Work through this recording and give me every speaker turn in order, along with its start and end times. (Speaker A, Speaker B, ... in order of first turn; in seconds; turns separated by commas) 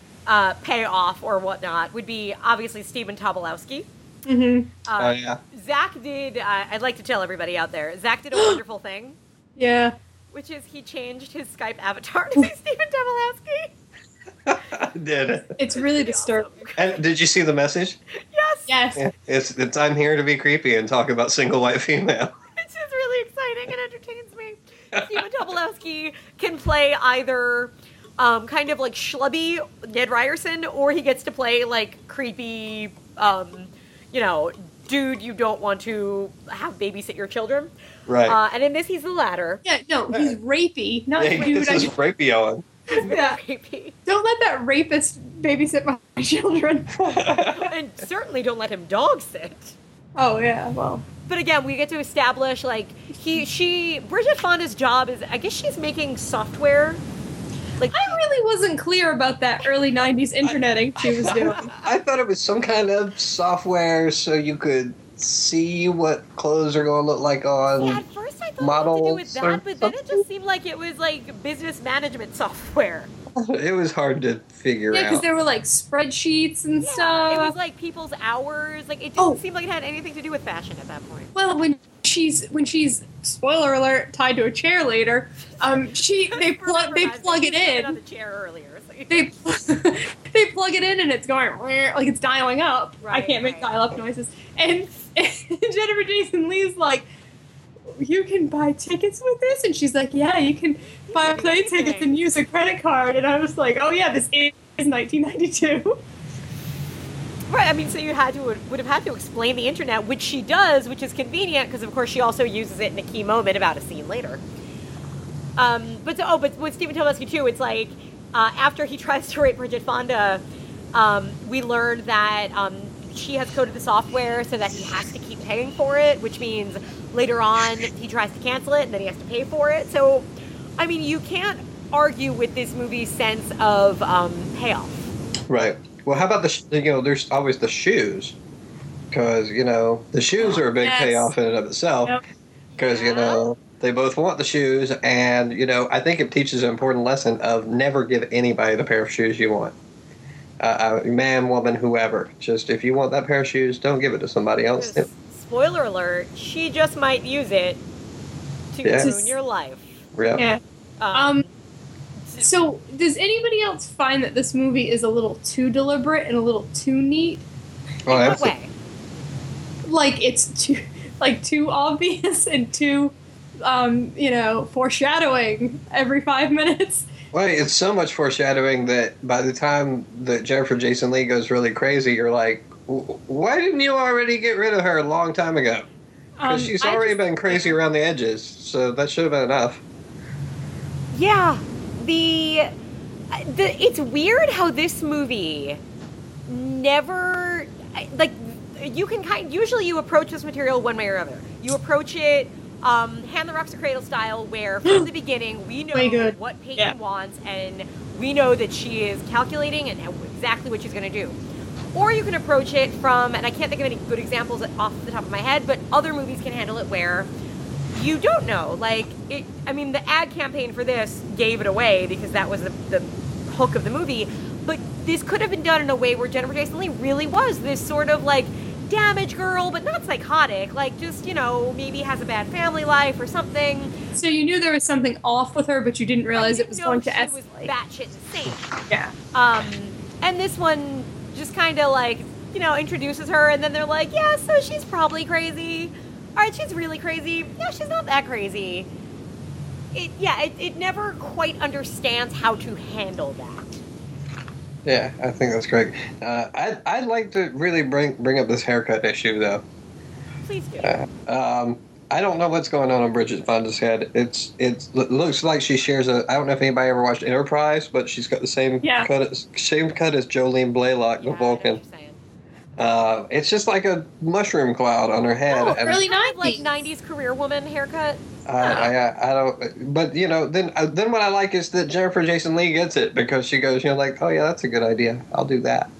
Speaker A: 0.3-3.9, Speaker B: 4.2-4.7, Speaker A: 4.8-9.2, Speaker C: 5.0-5.4, Speaker B: 8.3-8.6, Speaker B: 9.6-9.9, Speaker A: 10.3-13.7, Speaker C: 14.4-15.5, Speaker B: 15.6-16.6, Speaker A: 15.7-16.8, Speaker C: 16.8-18.0, Speaker A: 18.1-18.7, Speaker B: 18.7-19.0, Speaker C: 18.9-22.3, Speaker A: 22.6-37.7, Speaker C: 38.1-38.4, Speaker A: 38.2-39.6, Speaker B: 39.6-41.9, Speaker C: 41.2-42.6, Speaker A: 42.9-44.0, Speaker B: 42.9-43.4, Speaker B: 44.0-47.0, Speaker C: 47.0-47.7, Speaker A: 47.5-49.7, Speaker B: 50.1-51.0, Speaker A: 51.3-57.0, Speaker A: 57.8-58.2, Speaker B: 57.9-61.7, Speaker C: 61.0-68.0, Speaker A: 67.8-73.1, Speaker C: 68.6-70.2, Speaker C: 73.3-75.2, Speaker B: 74.9-77.5, Speaker A: 76.8-81.3, Speaker B: 81.3-88.0, Speaker A: 86.3-89.3, Speaker B: 89.1-97.1, Speaker A: 93.0-93.7, Speaker B: 97.9-106.0, Speaker A: 101.1-102.2, Speaker A: 107.5-114.4, Speaker A: 115.6-120.4, Speaker A: 120.9-135.1, Speaker C: 135.5-138.4, Speaker C: 139.1-142.2, Speaker B: 140.4-141.3, Speaker A: 142.8-143.5, Speaker C: 142.8-149.7, Speaker C: 150.6-155.1, Speaker A: 154.7-157.8, Speaker A: 158.7-160.0, Speaker C: 158.8-159.1, Speaker B: 159.0-159.3, Speaker C: 160.1-160.4, Speaker B: 160.3-160.6, Speaker A: 161.0-161.5, Speaker B: 161.1-161.4, Speaker B: 162.4-167.4, Speaker C: 168.1-168.5, Speaker A: 168.1-168.7, Speaker B: 169.8-177.1, Speaker C: 177.3-185.9, Speaker B: 186.4-187.7, Speaker C: 186.4-189.8, Speaker A: 191.1-192.7, Speaker A: 193.3-195.8, Speaker A: 196.5-211.4, Speaker B: 205.9-206.9, Speaker A: 211.9-217.3, Speaker A: 217.9-233.9, Speaker B: 234.1-237.7, Speaker A: 236.3-238.7, Speaker B: 238.9-239.1, Speaker A: 239.3-248.9, Speaker A: 249.9-253.8, Speaker C: 254.8-259.6, Speaker A: 260.4-261.0, Speaker C: 260.8-271.8, Speaker B: 268.8-269.1, Speaker A: 271.2-272.2, Speaker C: 272.8-276.0, Speaker B: 275.5-276.7, Speaker A: 275.7-278.2, Speaker C: 278.4-285.9